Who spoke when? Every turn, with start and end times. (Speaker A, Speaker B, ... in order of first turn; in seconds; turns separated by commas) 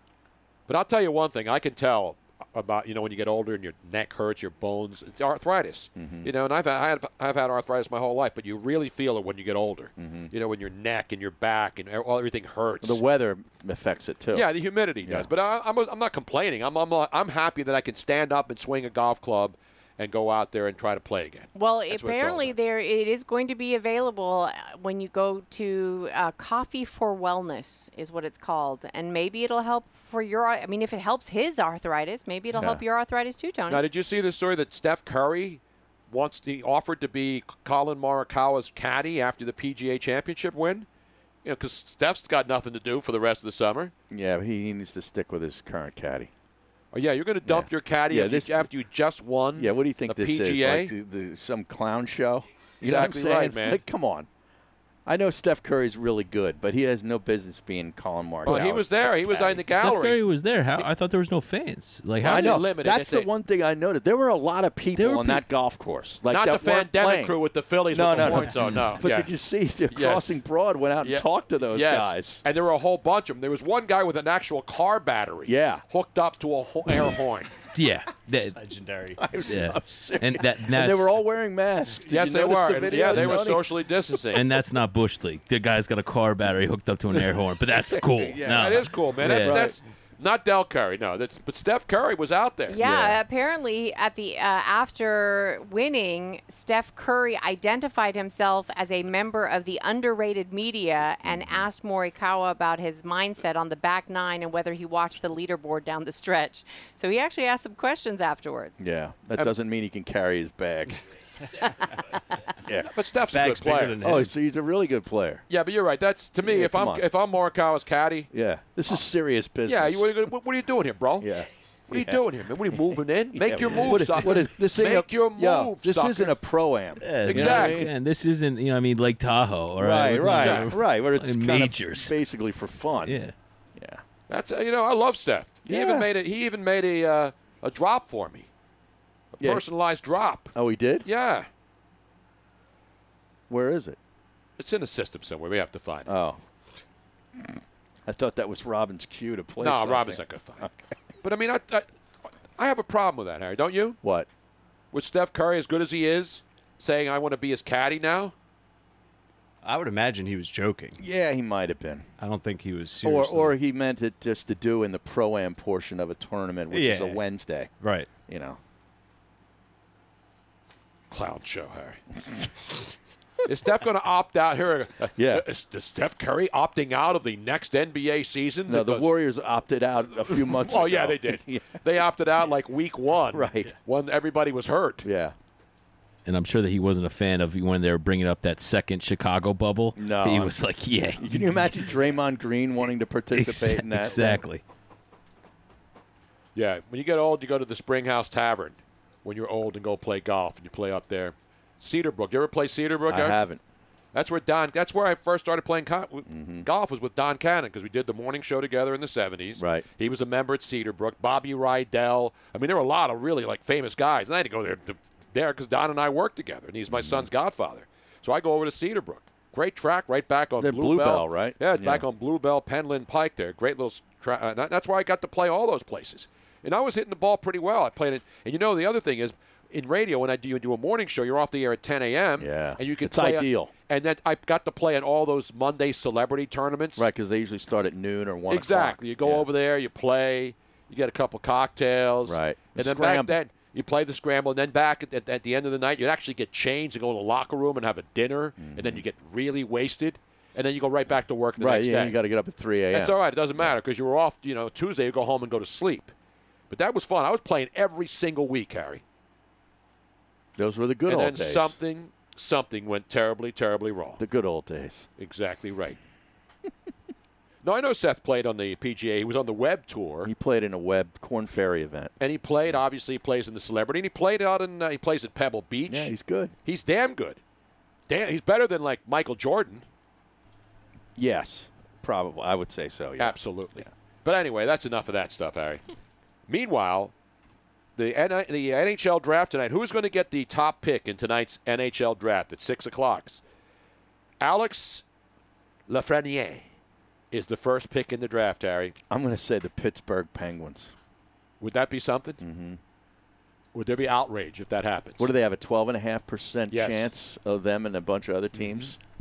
Speaker A: 0.7-13.0, Speaker B: 6.0-6.3, Speaker B: 10.0-10.3, Speaker B: 12.8-14.5, Speaker A: 14.3-22.6, Speaker B: 15.0-15.3, Speaker C: 21.6-33.8, Speaker A: 33.7-40.9, Speaker A: 41.5-43.9, Speaker B: 44.1-46.3, Speaker A: 46.9-50.9, Speaker B: 47.5-48.7, Speaker B: 49.5-54.3, Speaker A: 52.8-53.8, Speaker B: 55.1-59.7, Speaker A: 58.5-60.2, Speaker D: 59.7-62.7, Speaker B: 62.2-67.4, Speaker A: 62.2-63.3, Speaker D: 65.0-65.5, Speaker A: 66.3-69.3, Speaker B: 67.9-72.4, Speaker A: 69.9-70.4, Speaker A: 71.0-77.5, Speaker B: 75.5-75.8, Speaker D: 77.8-78.6, Speaker E: 78.3-79.2, Speaker B: 79.2-83.9, Speaker D: 79.4-81.1, Speaker A: 82.1-84.4, Speaker D: 84.3-89.6, Speaker B: 87.2-89.8, Speaker A: 88.5-92.8, Speaker C: 92.7-108.8, Speaker D: 92.9-93.1, Speaker B: 101.2-101.7, Speaker B: 108.8-111.0, Speaker B: 112.7-112.9, Speaker A: 112.9-114.1, Speaker E: 113.3-114.3, Speaker B: 114.0-115.5, Speaker A: 115.5-118.3, Speaker B: 116.4-117.0, Speaker B: 118.3-120.2, Speaker A: 119.7-121.3, Speaker B: 121.2-122.2, Speaker A: 121.9-126.3, Speaker B: 122.9-127.9, Speaker D: 127.0-132.1, Speaker A: 127.2-127.9, Speaker B: 129.8-133.2, Speaker A: 130.3-130.8, Speaker D: 133.1-133.3, Speaker B: 133.8-134.0, Speaker A: 134.3-138.5, Speaker B: 135.7-136.1, Speaker B: 139.4-139.7, Speaker A: 139.4-141.5, Speaker B: 140.6-141.1, Speaker B: 143.5-144.0, Speaker A: 144.6-146.1, Speaker B: 146.1-146.4, Speaker B: 148.1-150.9, Speaker A: 149.6-150.7, Speaker A: 151.2-151.9, Speaker A: 152.6-154.0, Speaker B: 154.0-154.3, Speaker A: 154.9-158.3, Speaker E: 159.6-161.0, Speaker B: 161.0-162.1, Speaker E: 162.2-163.6, Speaker B: 163.0-168.6, Speaker E: 166.7-167.2, Speaker E: 167.8-168.1, Speaker A: 171.1-172.0, Speaker A: 173.4-179.1, Speaker B: 175.2-175.4, Speaker B: 178.7-181.8, Speaker A: 180.3-185.1, Speaker B: 183.3-183.7, Speaker B: 185.0-185.3, Speaker D: 186.2-191.8, Speaker B: 189.9-194.4, Speaker D: 193.3-194.6, Speaker A: 196.6-203.4, Speaker B: 203.1-203.6, Speaker A: 204.1-237.1, Speaker B: 206.3-206.7, Speaker B: 209.6-209.9, Speaker B: 216.9-217.3, Speaker B: 220.6-222.1, Speaker B: 232.4-233.7, Speaker B: 237.0-239.5, Speaker A: 238.5-252.2, Speaker B: 242.3-243.3, Speaker B: 248.6-249.0, Speaker B: 251.6-253.7, Speaker A: 252.9-256.1, Speaker A: 256.7-259.0, Speaker B: 260.6-261.8, Speaker A: 261.1-264.2, Speaker B: 264.2-265.1, Speaker A: 265.2-266.0, Speaker A: 267.6-270.3, Speaker B: 270.2-272.1, Speaker A: 272.2-276.1, Speaker B: 275.9-276.6, Speaker A: 276.6-277.4, Speaker A: 278.1-279.9, Speaker B: 281.2-283.9, Speaker A: 283.2-285.8, Speaker A: 286.5-287.1, Speaker A: 288.0-293.4, Speaker A: 294.4-295.0, Speaker A: 295.9-296.6, Speaker A: 297.3-298.9, Speaker B: 299.1-300.9, Speaker A: 301.6-302.4, Speaker B: 302.4-302.8, Speaker A: 303.7-305.3, Speaker B: 305.2-309.0, Speaker A: 306.7-307.1, Speaker A: 308.6-308.9